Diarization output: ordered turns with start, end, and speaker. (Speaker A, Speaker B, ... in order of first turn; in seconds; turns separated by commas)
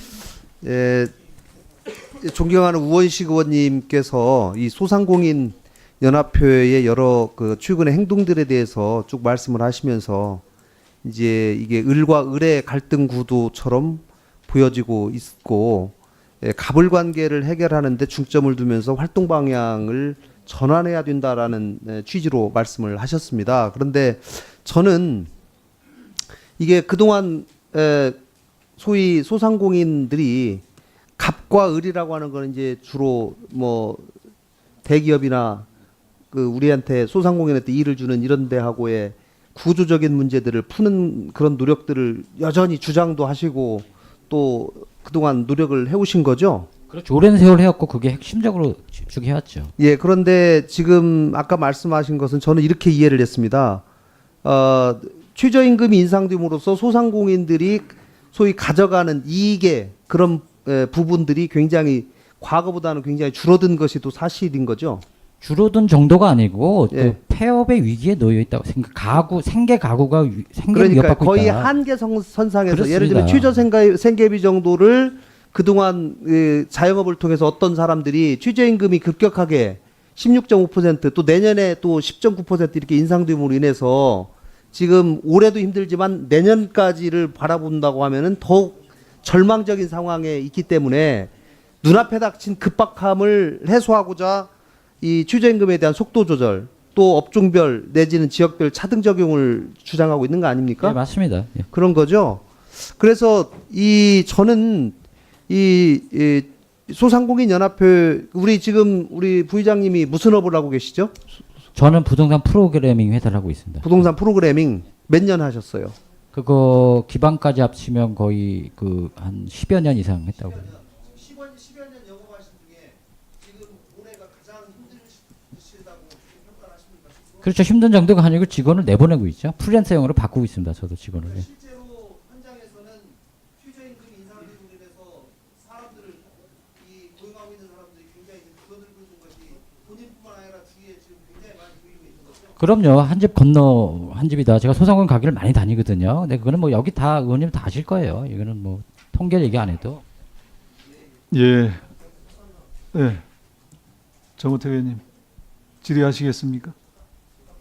Speaker A: 0.6-1.1, Speaker A: 2.1-10.4, Speaker A: 11.0-25.3, Speaker A: 26.6-28.2, Speaker A: 28.8-30.6, Speaker A: 31.2-34.1, Speaker A: 34.8-35.7, Speaker A: 36.3-46.7, Speaker B: 46.9-49.7, Speaker A: 49.8-53.8, Speaker A: 54.4-65.0, Speaker B: 65.4-71.7, Speaker A: 66.9-67.2, Speaker A: 70.7-94.5, Speaker B: 72.7-73.7, Speaker A: 95.0-101.0, Speaker B: 100.8-101.7, Speaker A: 101.7-105.0, Speaker A: 105.5-111.2, Speaker B: 111.8-114.0, Speaker A: 113.8-116.0, Speaker B: 116.3-120.8, Speaker A: 121.0-127.3, Speaker B: 127.4-131.5, Speaker A: 131.5-136.3, Speaker A: 136.8-142.4, Speaker B: 142.6-150.0, Speaker C: 151.3-151.8, Speaker C: 152.9-153.2, Speaker C: 154.4-155.0, Speaker C: 155.8-156.8